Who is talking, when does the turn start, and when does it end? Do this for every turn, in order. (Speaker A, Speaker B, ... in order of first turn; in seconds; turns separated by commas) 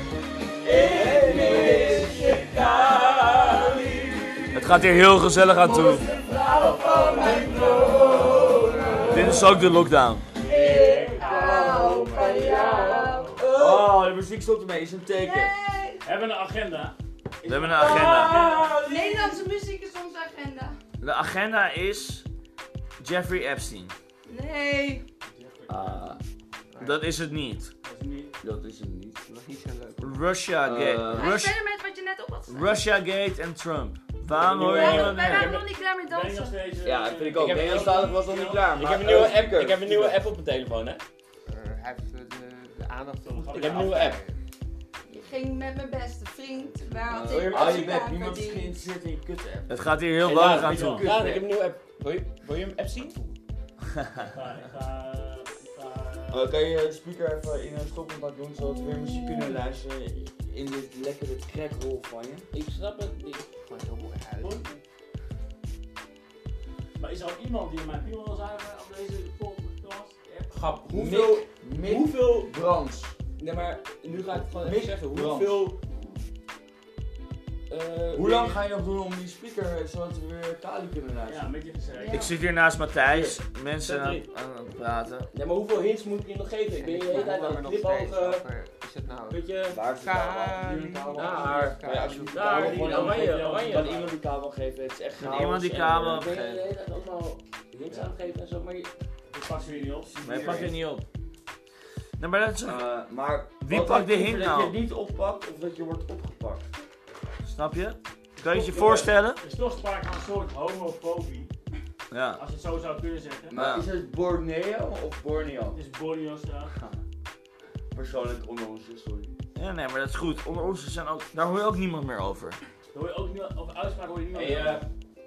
Speaker A: 0.7-4.6, Speaker B: 0.7-2.6, Speaker C: 0.8-2.6, Speaker D: 1.6-2.0, Speaker E: 4.5-6.1, Speaker C: 5.6-9.5, Speaker F: 6.3-9.4, Speaker A: 6.8-9.4, Speaker B: 6.9-7.4, Speaker D: 7.9-9.1, Speaker B: 9.1-9.4, Speaker E: 9.1-10.2, Speaker F: 10.4-13.4, Speaker C: 10.5-13.4, Speaker A: 10.7-13.9, Speaker B: 13.4-15.5, Speaker C: 15.2-16.1, Speaker F: 16.0-16.9, Speaker E: 17.4-18.4, Speaker A: 17.8-19.3, Speaker B: 17.8-18.3, Speaker F: 17.8-18.9, Speaker C: 18.7-20.8, Speaker E: 21.0-22.2, Speaker E: 23.0-23.9, Speaker C: 24.3-25.0, Speaker F: 25.3-26.1, Speaker E: 25.7-26.2, Speaker D: 26.7-27.0, Speaker E: 26.8-27.7, Speaker F: 27.8-28.3, Speaker B: 28.4-29.2, Speaker D: 29.3-30.2, Speaker E: 30.0-31.5, Speaker B: 30.6-31.3, Speaker C: 31.1-32.8, Speaker E: 32.5-35.5, Speaker A: 34.3-35.5, Speaker C: 34.6-36.7, Speaker F: 35.3-38.8, Speaker B: 36.8-40.2, Speaker A: 37.3-38.2, Speaker C: 37.9-38.3, Speaker A: 38.7-41.0, Speaker D: 41.5-44.4, Speaker F: 43.2-44.1, Speaker A: 43.5-44.2, Speaker C: 45.1-48.8, Speaker F: 46.6-47.4, Speaker B: 47.1-51.5, Speaker A: 47.2-48.0, Speaker E: 49.7-51.1, Speaker A: 50.2-53.3, Speaker F: 50.6-51.1, Speaker F: 54.3-56.5, Speaker B: 56.3-62.5, Speaker A: 62.5-63.4, Speaker D: 63.6-64.7, Speaker F: 64.4-64.8, Speaker F: 67.0-70.8, Speaker A: 70.5-72.5, Speaker B: 70.9-73.1, Speaker A: 73.4-75.8, Speaker B: 74.2-76.0, Speaker A: 77.7-78.6, Speaker B: 78.1-81.5, Speaker F: 81.2-82.2, Speaker C: 81.9-82.3, Speaker E: 82.1-85.3, Speaker A: 83.1-84.2, Speaker A: 85.3-88.4, Speaker D: 86.8-92.7, Speaker C: 87.1-87.4, Speaker A: 89.3-89.8, Speaker B: 89.7-96.0, Speaker A: 91.1-94.0, Speaker F: 92.5-94.2, Speaker E: 95.2-96.7, Speaker A: 95.5-98.9, Speaker B: 97.9-98.2, Speaker F: 99.3-100.3, Speaker B: 100.0-100.8, Speaker E: 100.2-101.0, Speaker E: 102.2-102.8, Speaker B: 102.7-106.6, Speaker E: 103.6-104.8, Speaker E: 107.4-109.4, Speaker F: 108.4-111.5, Speaker E: 112.1-112.4, Speaker F: 112.3-113.6, Speaker B: 113.5-115.8, Speaker E: 113.5-113.8, Speaker F: 115.7-116.9, Speaker B: 117.9-119.3, Speaker E: 119.5-122.6, Speaker F: 122.9-124.8, Speaker A: 124.3-124.9